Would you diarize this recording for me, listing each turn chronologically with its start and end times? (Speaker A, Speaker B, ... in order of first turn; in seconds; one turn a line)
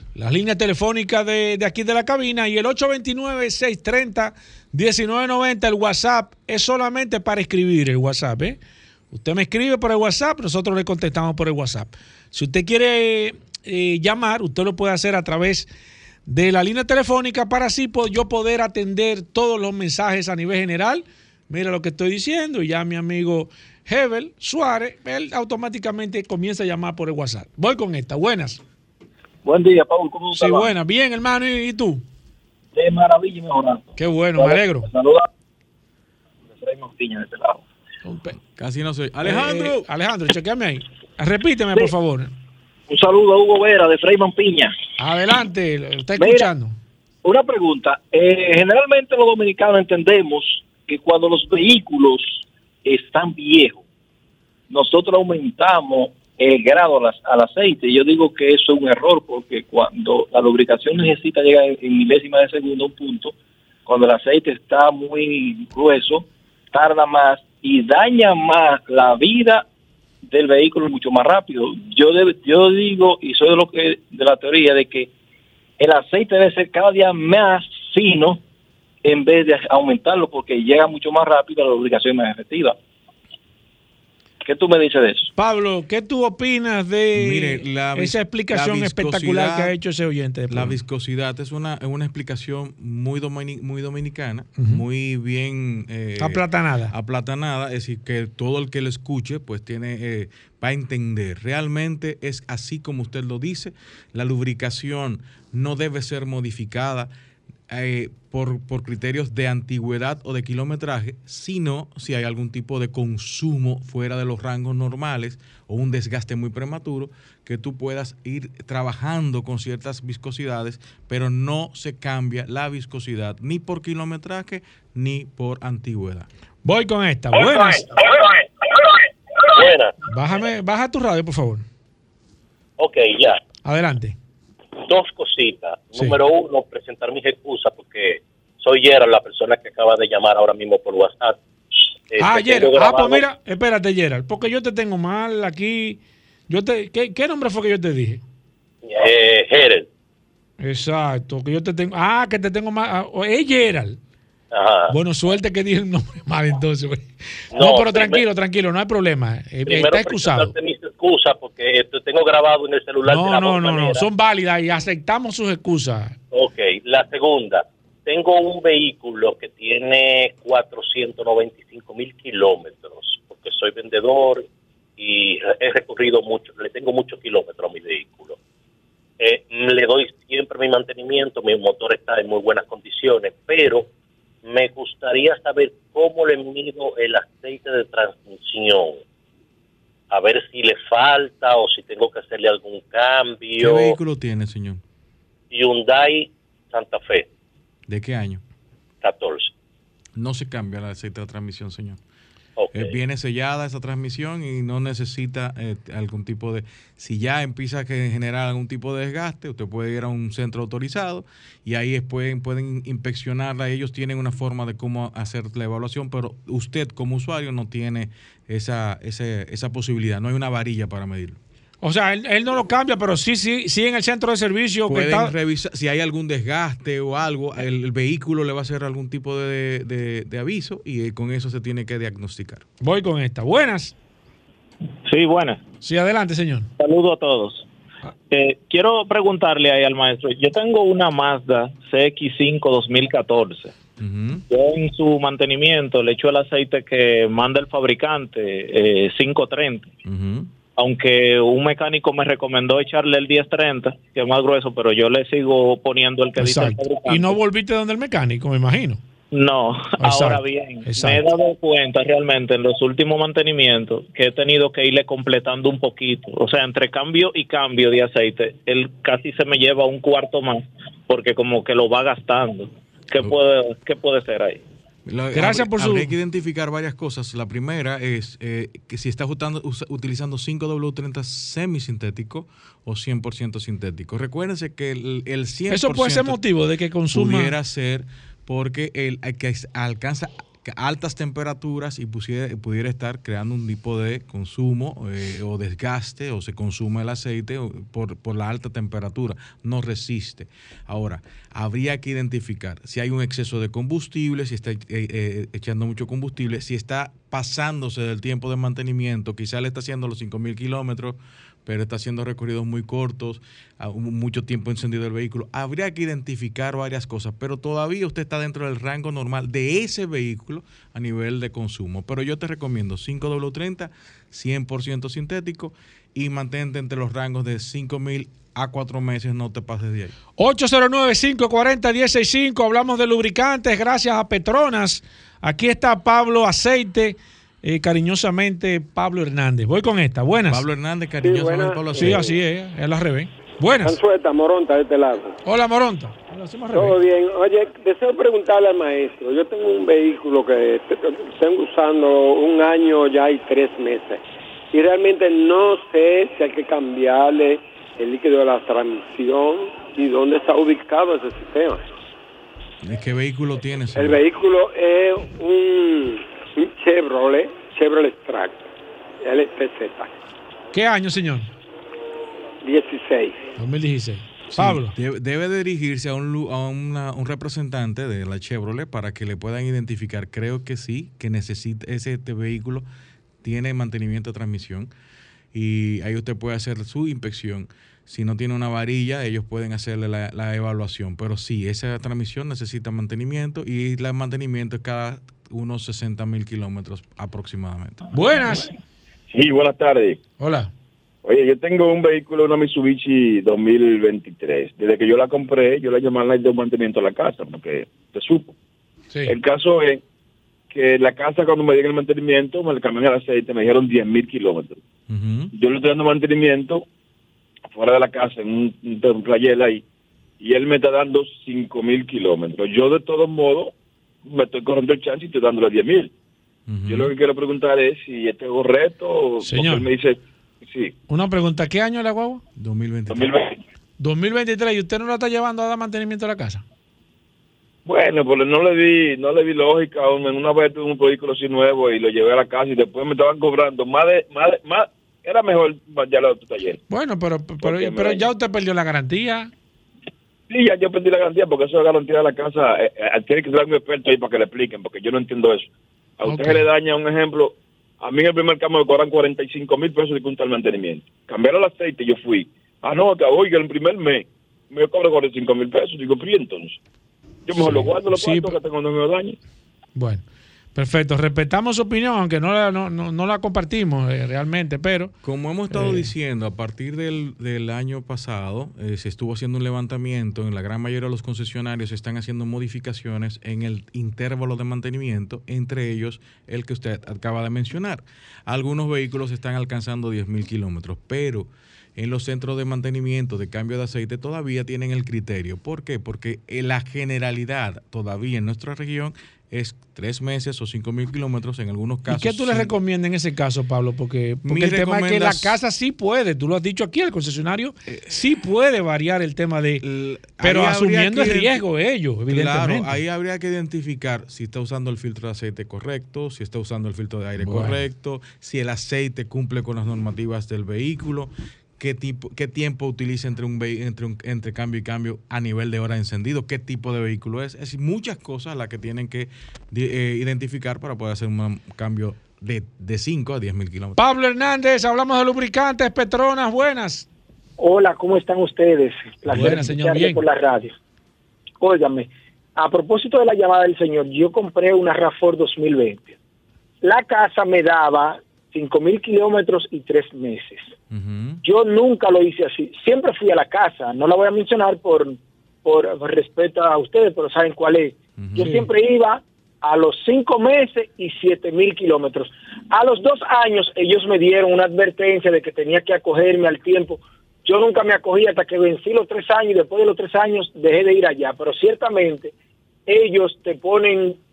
Speaker A: 0.1-8.6
Speaker A: 9.1-15.7
Speaker A: 16.2-28.6
Speaker B: 29.4-30.7
Speaker A: 30.3-32.0
Speaker B: 32.7-35.3
Speaker A: 34.0-34.9
Speaker B: 36.5-37.6
Speaker A: 38.0-38.3
Speaker C: 38.5-39.9
Speaker A: 39.2-42.3
Speaker B: 42.9-44.7
Speaker A: 45.0-46.8
Speaker B: 46.2-46.5
Speaker B: 47.2-53.8
Speaker B: 54.7-63.3
Speaker B: 63.9-69.7
Speaker B: 70.2-75.1
Speaker B: 75.8-78.4
Speaker B: 79.0-82.8
Speaker B: 84.4-85.3
Speaker A: 85.3-90.8
Speaker C: 87.1-89.8
Speaker C: 90.5-107.1
Speaker A: 94.6-94.8
Speaker A: 96.2-96.9
Speaker C: 107.7-126.3
Speaker A: 126.6-127.9
Speaker D: 129.4-129.9
Speaker A: 130.1-131.6
Speaker D: 132.8-133.4
Speaker A: 133.6-134.2
Speaker D: 134.8-141.4
Speaker D: 142.1-143.2
Speaker A: 142.2-148.2
Speaker D: 148.8-149.9
Speaker A: 150.6-154.0
Speaker D: 154.5-154.9
Speaker A: 154.9-160.5
Speaker D: 157.5-158.2
Speaker D: 159.7-164.1
Speaker A: 163.0-166.2
Speaker D: 166.3-174.4
Speaker D: 175.0-178.3
Speaker D: 179.2-183.9
Speaker D: 184.4-189.0
Speaker D: 190.1-194.0
Speaker C: 193.6-194.8
Speaker D: 195.5-197.3
Speaker C: 197.9-198.4
Speaker D: 199.0-199.5
Speaker C: 200.2-202.0
Speaker D: 202.6-203.0
Speaker C: 202.7-221.4
Speaker A: 221.8-225.3
Speaker C: 224.9-232.6
Speaker A: 232.8-233.9
Speaker E: 235.0-235.6
Speaker A: 235.8-236.7
Speaker E: 236.8-237.6
Speaker E: 238.3-243.7
Speaker C: 244.0-244.4
Speaker E: 244.5-249.9
Speaker C: 250.0-250.5
Speaker E: 250.8-257.3
Speaker A: 256.4-259.0
Speaker E: 259.3-274.6
Speaker A: 260.0-261.3
Speaker C: 275.1-286.4
Speaker A: 275.3-276.2
Speaker A: 285.7-287.5
Speaker C: 287.1-330.1
Speaker A: 330.4-340.6
Speaker C: 340.5-342.3
Speaker F: 341.2-342.3
Speaker A: 341.9-344.0
Speaker F: 343.8-345.4
Speaker A: 345.4-347.0
Speaker F: 346.7-354.2
Speaker F: 354.7-361.8
Speaker C: 362.8-364.2
Speaker F: 363.9-368.7
Speaker F: 369.2-370.1
Speaker A: 370.7-371.5
Speaker F: 372.6-373.4
Speaker A: 373.6-374.9
Speaker C: 374.5-382.9
Speaker C: 383.4-384.9
Speaker C: 385.5-398.1
Speaker A: 398.1-398.7
Speaker G: 399.3-400.2
Speaker A: 400.4-400.7
Speaker G: 401.2-408.5
Speaker G: 409.2-410.0
Speaker G: 410.7-414.8
Speaker C: 415.1-415.5
Speaker G: 415.5-416.8
Speaker G: 417.7-419.8
Speaker G: 420.4-423.7
Speaker G: 424.2-426.1
Speaker C: 426.7-427.1
Speaker G: 426.9-430.9
Speaker A: 429.4-429.9
Speaker A: 431.1-432.4
Speaker C: 432.6-433.4
Speaker G: 433.1-433.6
Speaker A: 434.0-436.6
Speaker G: 437.9-446.8
Speaker A: 446.9-449.5
Speaker G: 447.6-448.2
Speaker G: 450.5-466.8
Speaker A: 456.2-456.6
Speaker G: 467.5-469.4
Speaker A: 467.6-468.6
Speaker A: 469.9-470.2
Speaker A: 470.7-475.1
Speaker C: 475.2-502.7
Speaker A: 475.7-476.1
Speaker A: 502.1-509.8
Speaker C: 504.4-505.6
Speaker C: 509.8-511.6
Speaker A: 510.4-513.0
Speaker C: 512.3-534.0
Speaker A: 517.4-517.8
Speaker A: 534.0-537.1
Speaker H: 537.6-540.7
Speaker A: 539.2-540.2
Speaker C: 539.3-539.6
Speaker H: 541.6-546.1
Speaker H: 546.8-550.7
Speaker C: 550.9-551.4
Speaker H: 551.4-572.3
Speaker C: 558.2-558.6
Speaker A: 558.4-558.7
Speaker H: 572.9-574.2